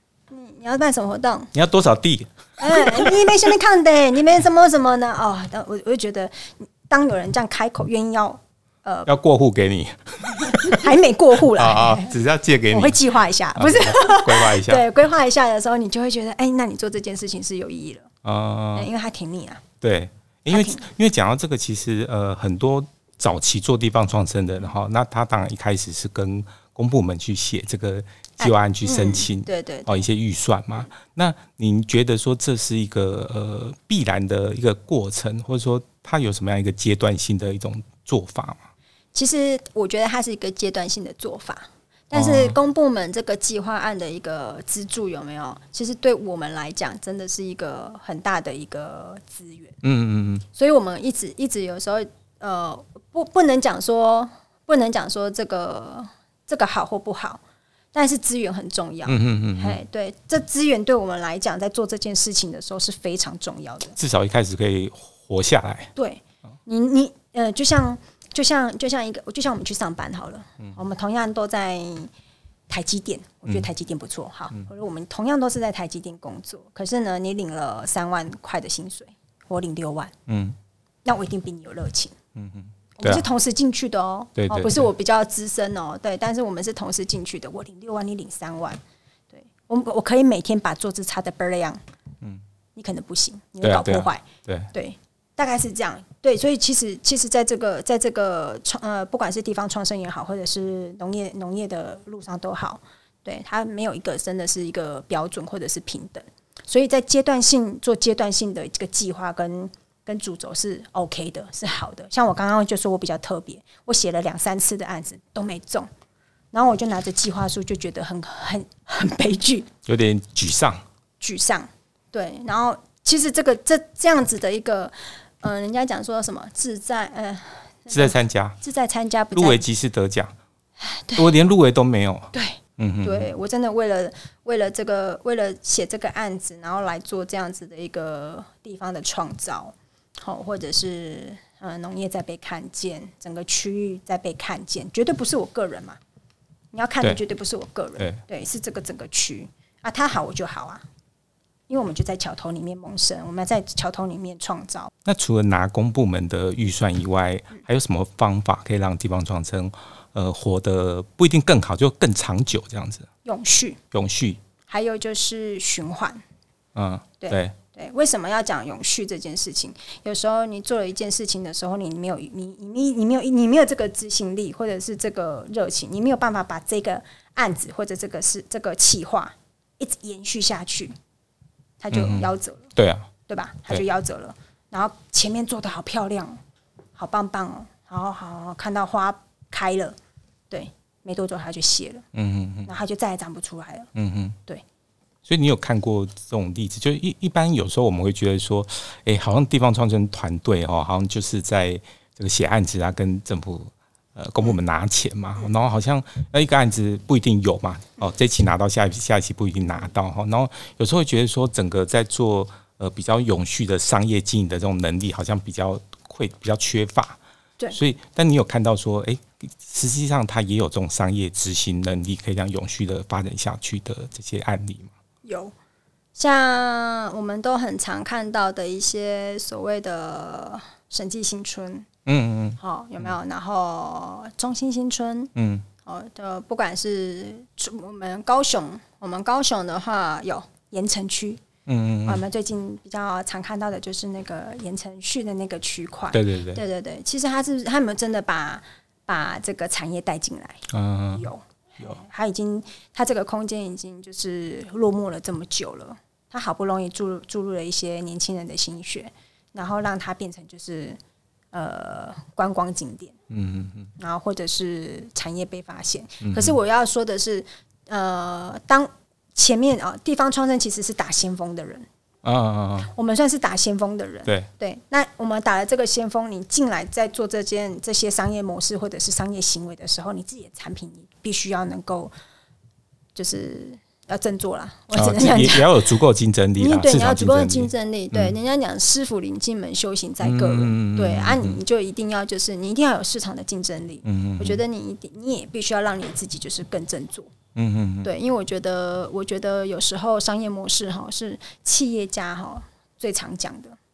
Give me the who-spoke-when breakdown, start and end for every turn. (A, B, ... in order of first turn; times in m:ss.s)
0:00.3-0:01.5 A
0:01.5-0:03.3 B
0:02.6-0:09.1 A
0:09.1-0:10.9 B
0:10.4-0:12.1 A
0:11.5-0:14.8 B
0:12.7-0:18.1 A
0:18.2-0:18.9 B
0:18.7-0:19.6 A
0:19.8-0:38.7 B
0:20.5-0:20.8 A
0:28.4-0:29.9 A
0:39.1-0:49.8 A
0:42.1-0:42.6 B
0:49.8-0:50.4 B
0:50.5-0:57.4 A
0:57.9-1:04.0 A
0:59.0-0:59.8 B
1:04.0-1:05.9 B
1:06.0-1:12.1 A
1:12.7-1:20.1 A
1:20.3-1:20.6 B
1:21.0-1:22.1 A
1:22.3-1:23.2 B
1:23.0-1:28.8 A
1:24.4-1:24.9 B
1:29.3-1:31.8 A
1:32.8-1:55.9 A
1:33.6-1:34.7 B
1:56.5-1:59.7 A
1:59.8-2:00.8 B
2:01.2-2:09.6 A
2:07.9-2:08.6 B
2:09.3-2:10.3 B
2:10.8-2:11.4 A
2:11.2-2:13.3 B
2:12.3-2:26.0 A
2:26.7-2:30.8 A
2:31.7-2:34.9 A
2:35.0-2:43.1 B
2:43.2-2:43.8 A
2:43.9-2:44.4 B
2:44.7-2:46.2 A
2:46.7-2:47.5 B
2:47.2-3:00.9 A
3:01.8-3:02.7 A
3:01.9-3:03.1 B
3:03.3-3:06.4 A
3:07.0-3:10.0 A
3:10.5-3:12.0 A
3:12.1-3:12.7 B
3:12.6-3:13.9 A
3:13.9-3:14.4 B
3:15.2-3:37.2 B
3:37.7-3:44.9 B
3:45.2-3:45.5 A
3:46.2-3:51.9 A
3:52.0-3:52.6 B
3:52.6-3:55.3 A
3:55.4-3:55.6 B
3:55.8-4:01.4 A
4:01.6-4:02.2 B
4:02.0-4:21.0 A
4:06.1-4:06.6 B
4:10.7-4:11.2 B
4:21.5-4:23.2 A
4:23.3-4:23.9 B
4:24.0-4:31.9 A
4:26.2-4:26.6 B
4:32.2-4:32.9 B
4:32.8-4:42.1 A
4:43.1-4:45.8 A
4:44.9-4:48.3 B
4:46.6-4:57.3 A
4:50.2-4:51.6 B
4:54.0-4:54.6 B
4:57.5-4:58.1 B
4:58.0-5:03.8 A